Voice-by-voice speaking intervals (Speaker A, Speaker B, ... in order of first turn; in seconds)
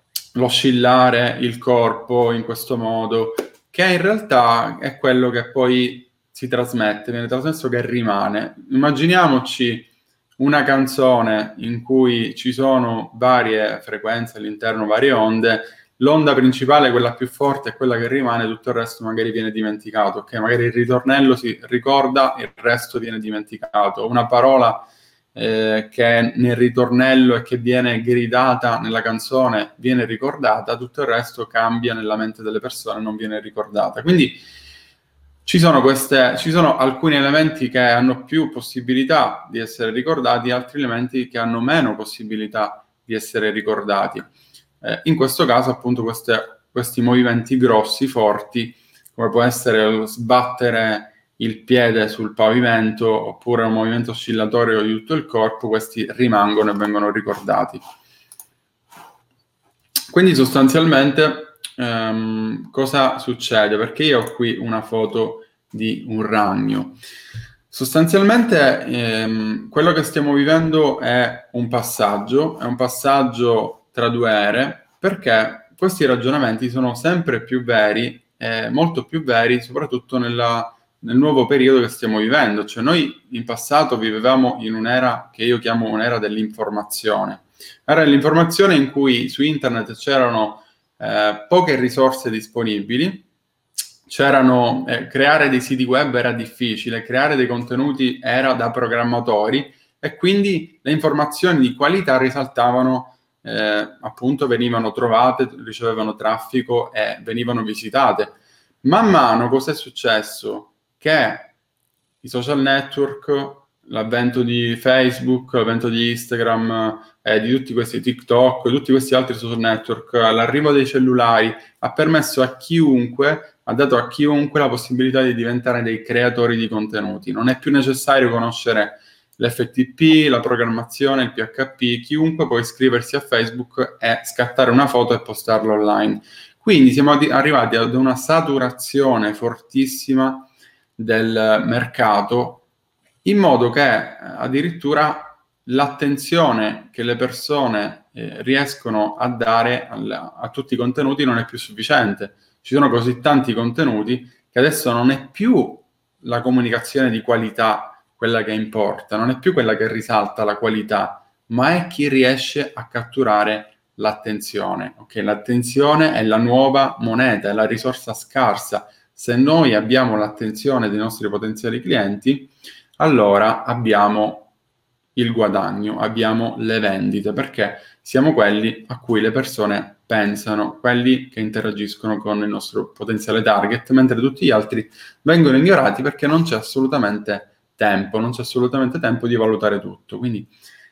Speaker A: 0.3-34.4, 35.5-44.3, 44.8-57.8, 60.1-67.0, 67.7-93.3, 94.1-111.5, 112.2-142.7, 143.2-174.5, 175.2-190.5